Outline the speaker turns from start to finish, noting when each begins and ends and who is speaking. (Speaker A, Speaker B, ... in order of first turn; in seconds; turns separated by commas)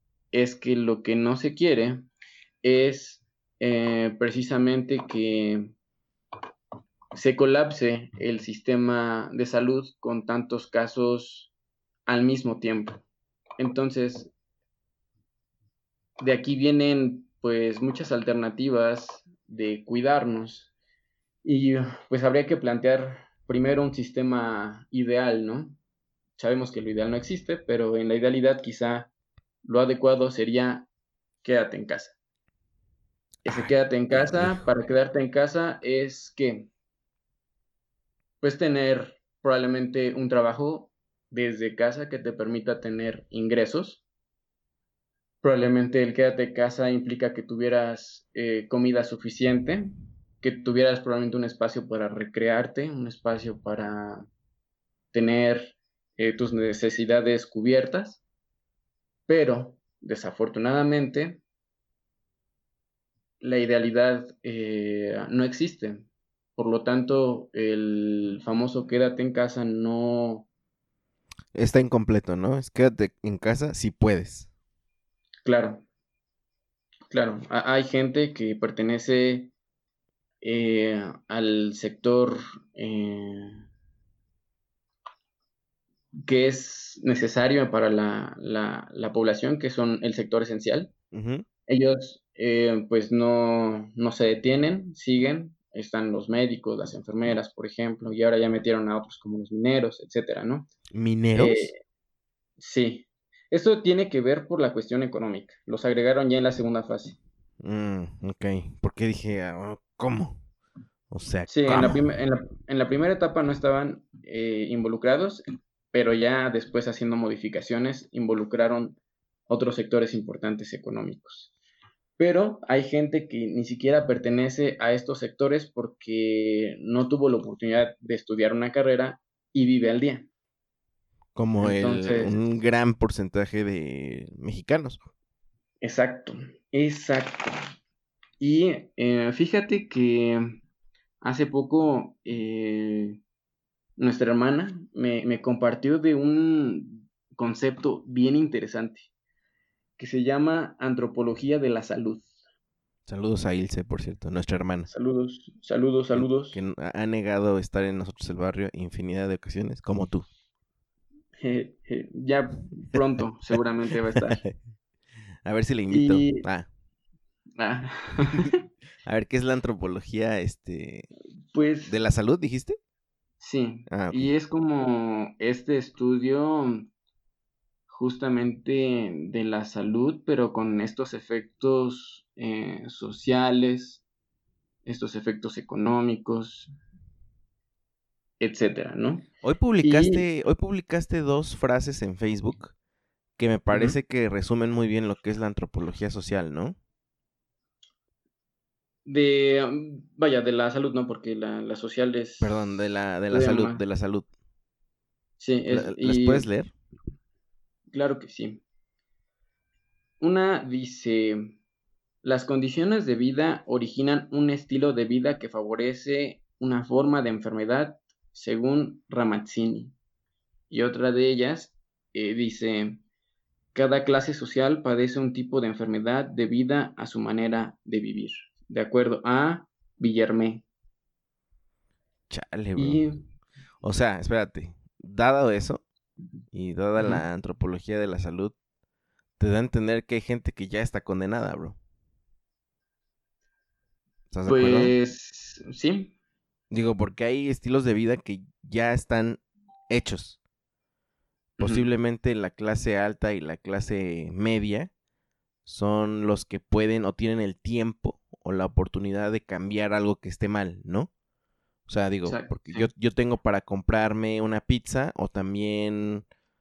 Speaker A: 0.3-2.1, Speaker A: 2.6-5.7, Speaker A: 7.1-11.5, Speaker A: 12.1-13.0, Speaker A: 13.6-14.3, Speaker A: 16.2-20.7, Speaker A: 21.4-25.8, Speaker A: 26.4-29.1, Speaker A: 29.6-30.9, Speaker A: 31.4-32.1, Speaker A: 33.4-36.7, Speaker B: 33.5-34.6, Speaker A: 38.4-44.0, Speaker A: 45.4-54.3, Speaker A: 55.1-58.2, Speaker A: 59.3-61.4, Speaker A: 63.4-70.5, Speaker B: 71.5-74.5, Speaker A: 75.4-75.8, Speaker A: 77.1-79.5, Speaker A: 80.4-83.6, Speaker A: 86.2-90.9, Speaker B: 91.1-91.4, Speaker A: 91.7-100.7, Speaker B: 100.9-101.7, Speaker A: 101.3-101.8, Speaker A: 102.6-107.2, Speaker B: 107.6-110.4, Speaker B: 111.1-112.0, Speaker A: 111.5-121.5, Speaker A: 122.2-130.3, Speaker B: 131.3-135.0, Speaker A: 131.6-132.4, Speaker A: 135.8-137.6, Speaker A: 138.4-140.6, Speaker A: 141.2-143.2, Speaker A: 144.0-149.1, Speaker A: 150.0-152.3, Speaker B: 153.1-154.9, Speaker A: 154.9-156.6, Speaker B: 156.1-160.3, Speaker A: 161.4-164.4, Speaker B: 164.1-164.6, Speaker B: 165.4-166.7, Speaker A: 165.9-166.4, Speaker A: 167.6-168.6, Speaker B: 169.0-171.1, Speaker A: 171.5-171.9, Speaker B: 171.8-172.8, Speaker A: 173.4-176.9, Speaker B: 173.9-174.3, Speaker A: 177.9-184.0, Speaker A: 184.8-186.7, Speaker A: 188.4-189.3, Speaker B: 189.4-192.7, Speaker A: 189.8-190.2, Speaker B: 193.4-196.8, Speaker A: 193.7-194.0, Speaker A: 199.0-203.8, Speaker B: 202.4-204.3, Speaker A: 205.4-206.5, Speaker B: 205.7-206.7, Speaker A: 207.9-208.6, Speaker A: 210.2-211.6, Speaker A: 212.2-219.9, Speaker A: 220.7-223.0, Speaker A: 223.7-230.6, Speaker B: 232.3-233.0, Speaker A: 232.8-233.2, Speaker B: 233.8-235.8, Speaker B: 236.5-238.5, Speaker A: 237.0-237.2, Speaker B: 239.4-241.8, Speaker B: 244.3-244.9, Speaker A: 244.5-246.1, Speaker B: 246.7-250.4, Speaker A: 251.6-251.9, Speaker B: 251.6-254.9, Speaker B: 255.7-261.1, Speaker B: 261.9-266.2, Speaker A: 262.2-262.9